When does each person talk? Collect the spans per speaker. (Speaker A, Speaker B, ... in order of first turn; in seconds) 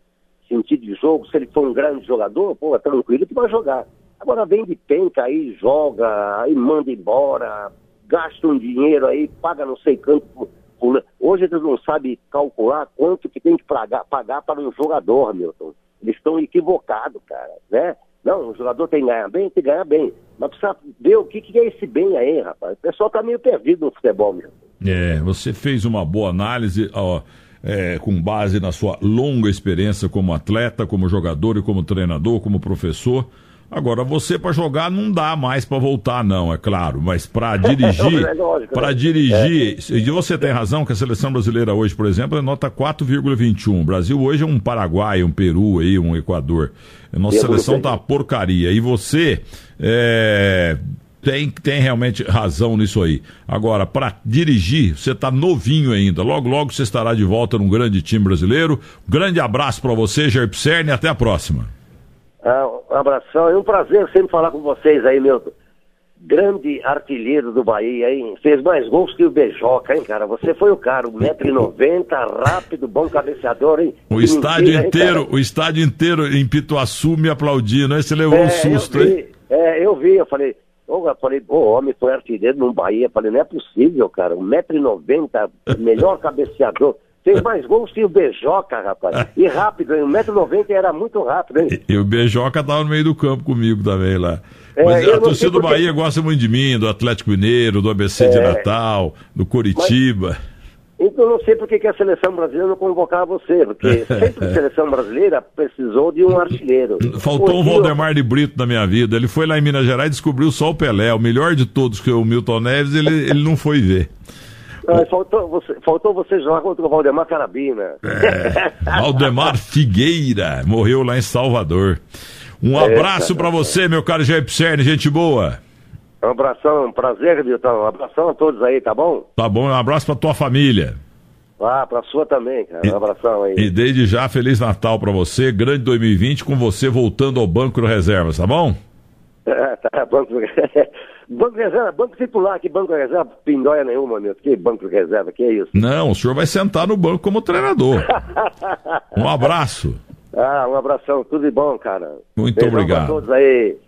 Speaker A: 0.5-24.5, 37.6-39.5, 47.3-48.0, 62.4-65.5, 66.2-75.2, 78.3-91.7, 94.8-95.8, 98.2-98.6, 101.0-108.0, 114.8-119.0, 122.8-123.7, 126.2-129.2, 131.6-133.7, 139.5-145.8, 148.3-148.9, 150.3-153.8
Speaker B: 24.8-61.7, 74.1-79.2, 91.7-100.3, 107.0-114.1, 118.1-122.0, 122.6-125.6, 129.4-131.0, 133.6-138.8, 145.7-148.2, 149.1-150.0, 152.4-153.2